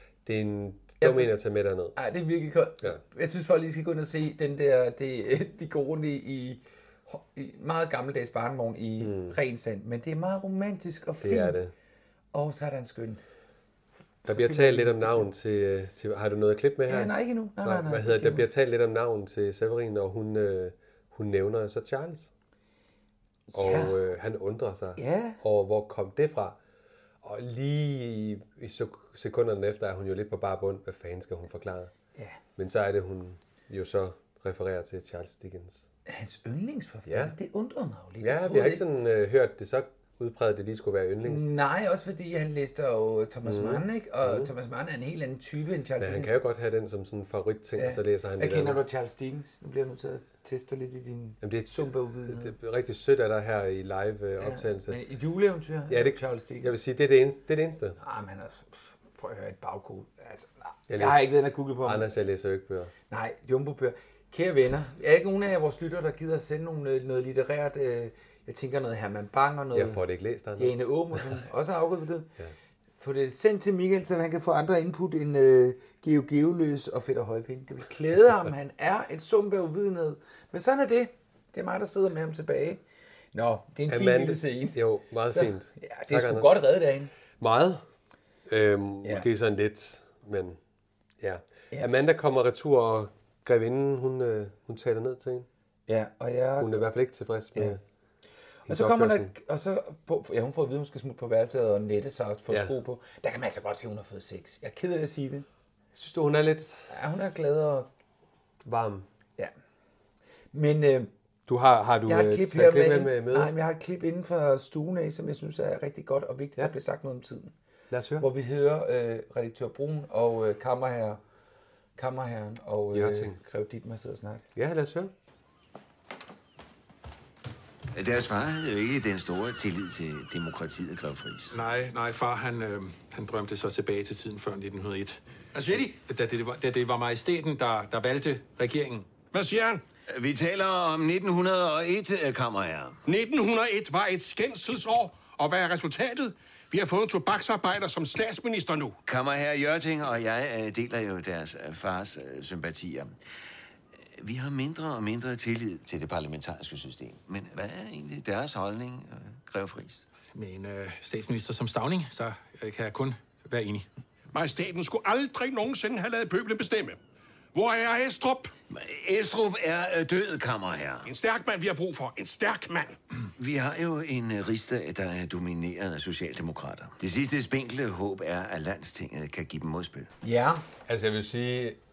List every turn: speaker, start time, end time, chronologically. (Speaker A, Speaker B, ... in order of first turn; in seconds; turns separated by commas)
Speaker A: 0.3-2.0, Speaker B: 1.0-1.3, Speaker B: 1.9-11.6, Speaker A: 9.0-9.4, Speaker A: 11.2-11.7, Speaker B: 12.3-13.2, Speaker B: 14.2-15.3, Speaker A: 14.2-22.3, Speaker B: 16.9-18.5, Speaker B: 23.5-24.0, Speaker A: 23.5-26.6, Speaker B: 25.0-25.4, Speaker A: 27.2-31.9, Speaker A: 32.6-35.9, Speaker B: 36.1-38.8, Speaker A: 37.1-37.4, Speaker A: 38.2-41.5, Speaker B: 41.2-46.3, Speaker A: 43.4-44.5, Speaker A: 46.0-48.8, Speaker B: 47.8-52.5, Speaker A: 51.4-55.0, Speaker B: 54.4-56.8, Speaker A: 55.9-58.0, Speaker B: 58.0-62.1, Speaker A: 60.9-62.9, Speaker B: 63.1-70.0, Speaker A: 69.7-71.3, Speaker B: 70.6-72.3, Speaker B: 73.0-82.8, Speaker B: 83.3-87.1, Speaker A: 83.9-86.6, Speaker A: 87.4-87.8, Speaker A: 88.5-90.6, Speaker A: 91.2-95.5, Speaker B: 95.9-96.9, Speaker A: 96.6-97.8, Speaker A: 98.7-99.3, Speaker B: 98.7-105.5, Speaker A: 102.5-102.8, Speaker A: 106.0-106.8, Speaker B: 106.9-107.9, Speaker A: 108.6-109.1, Speaker B: 110.5-111.1, Speaker A: 111.5-113.5, Speaker B: 112.1-117.5, Speaker A: 117.9-118.3, Speaker B: 118.2-121.2, Speaker B: 122.0-124.5, Speaker A: 122.9-123.4, Speaker A: 124.5-125.1, Speaker C: 127.9-131.6, Speaker D: 131.5-135.2, Speaker E: 135.6-135.9, Speaker D: 135.8-139.1, Speaker E: 139.3-139.8, Speaker C: 140.1-143.0, Speaker E: 143.1-149.0, Speaker C: 149.1-153.2, Speaker C: 154.2-160.1, Speaker D: 160.3-163.9, Speaker E: 164.3-167.0, Speaker E: 167.5-168.5, Speaker C: 168.7-171.1, Speaker E: 171.1-173.0, Speaker C: 173.4-180.1, Speaker B: 180.2-180.6, Speaker A: 180.9-181.8